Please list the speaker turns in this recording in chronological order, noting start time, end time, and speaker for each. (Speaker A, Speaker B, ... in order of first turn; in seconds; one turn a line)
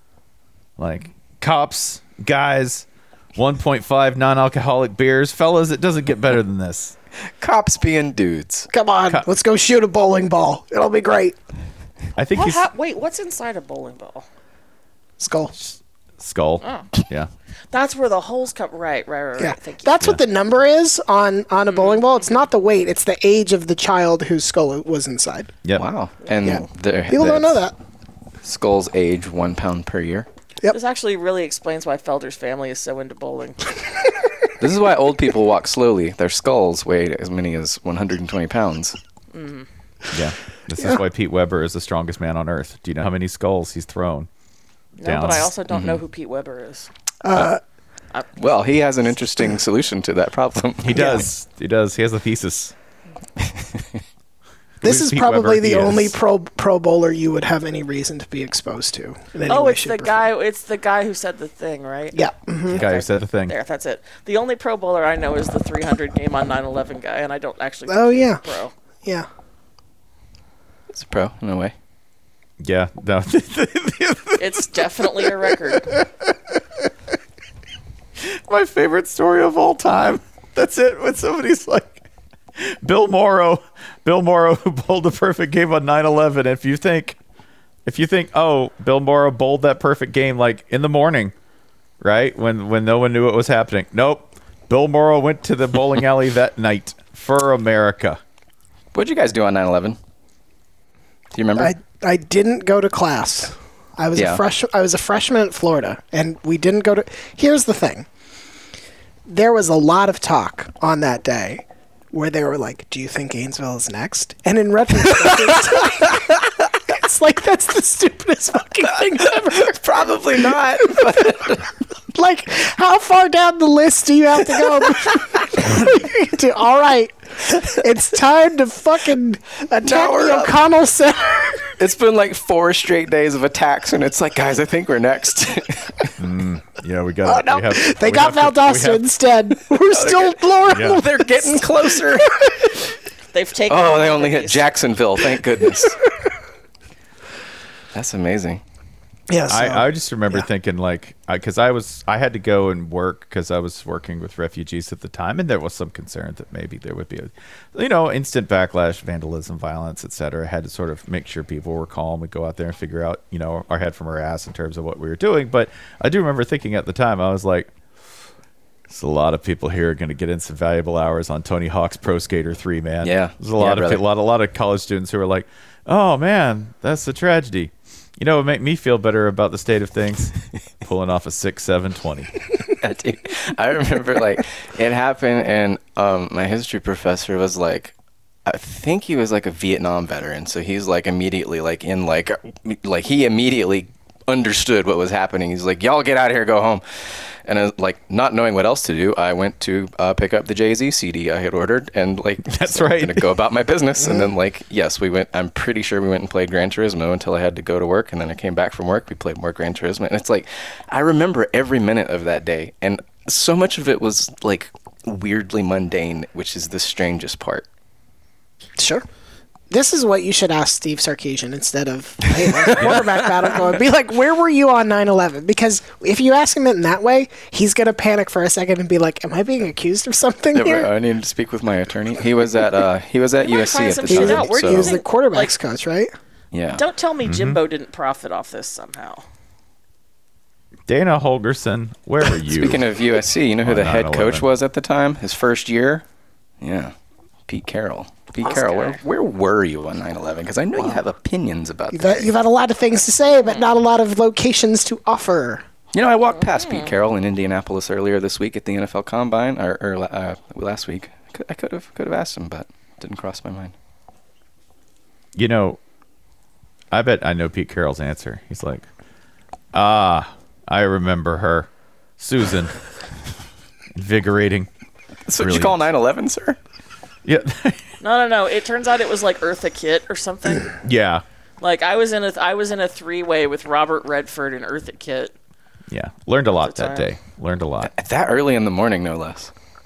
Speaker A: 0.8-7.0
Speaker B: 7.4-8.7
Speaker C: 8.7-11.4
Speaker A: 12.2-12.7
Speaker D: 12.3-14.3
Speaker C: 15.2-15.6
Speaker A: 15.6-17.3
Speaker D: 16.6-16.9
Speaker D: 17.7-20.0
Speaker C: 19.4-25.5
Speaker D: 21.7-22.4
Speaker B: 25.8-27.6
Speaker D: 26.2-26.6
Speaker C: 26.4-27.8
Speaker B: 28.4-30.3
Speaker D: 30.7-33.7
Speaker B: 34.6-39.0
Speaker D: 39.3-39.7
Speaker A: 40.1-44.3
Speaker D: 45.0-46.9
Speaker A: 45.0-45.5
Speaker B: 45.7-46.0
Speaker C: 47.2-47.6
Speaker B: 48.4-51.2
Speaker A: 50.8-52.7
Speaker C: 50.9-51.3
Speaker B: 53.6-53.8
Speaker A: 54.8-56.1
Speaker C: 54.8-60.3
Speaker D: 59.5-68.7
Speaker C: 62.1-62.8
Speaker A: 62.7-63.5
Speaker C: 67.9-68.4
Speaker B: 70.9-71.7
Speaker A: 72.6-75.1
Speaker D: 74.4-75.9
Speaker A: 75.8-76.1
Speaker A: 78.2-82.0
Speaker A: 82.6-87.2
Speaker A: 87.9-91.3
Speaker A: 92.0-98.2
Speaker B: 98.9-100.0
Speaker B: 101.3-101.7
Speaker C: 101.6-108.1
Speaker B: 104.2-104.4
Speaker C: 109.3-121.5
Speaker B: 119.2-121.7
Speaker C: 122.1-131.8
Speaker B: 129.8-130.6
Speaker B: 131.8-136.2
Speaker A: 136.2-139.0
Speaker C: 137.2-142.8
Speaker B: 139.9-142.3
Speaker A: 140.7-141.0
Speaker D: 143.3-144.7
Speaker B: 143.7-146.0
Speaker B: 147.9-148.6
Speaker C: 149.3-150.5
Speaker A: 149.5-167.7
Speaker A: 168.9-182.4
Speaker B: 173.0-174.0
Speaker B: 182.8-187.9
Speaker B: 188.5-217.7
Speaker A: 202.5-203.3
Speaker C: 204.0-204.3
Speaker C: 218.8-219.1
Speaker C: 219.7-230.9
Speaker B: 222.4-223.4
Speaker B: 230.5-234.9
Speaker D: 233.4-235.5
Speaker C: 234.1-236.1
Speaker B: 236.5-236.8
Speaker D: 236.8-239.2
Speaker A: 237.2-237.6
Speaker A: 240.9-242.8
Speaker B: 242.5-246.0
Speaker A: 243.6-244.5
Speaker B: 246.6-246.9
Speaker B: 247.5-252.3
Speaker D: 248.4-249.0
Speaker C: 251.9-255.6
Speaker B: 255.9-263.7
Speaker D: 256.3-256.9
Speaker A: 265.4-265.8
Speaker A: 266.9-268.9
Speaker A: 269.7-272.8
Speaker A: 274.0-274.7
Speaker B: 275.3-276.6
Speaker A: 275.4-275.8
Speaker A: 277.2-277.9
Speaker D: 278.0-280.8
Speaker A: 280.8-281.2
Speaker D: 281.6-285.3
Speaker A: 285.9-287.9
Speaker D: 286.6-287.1
Speaker B: 287.8-289.5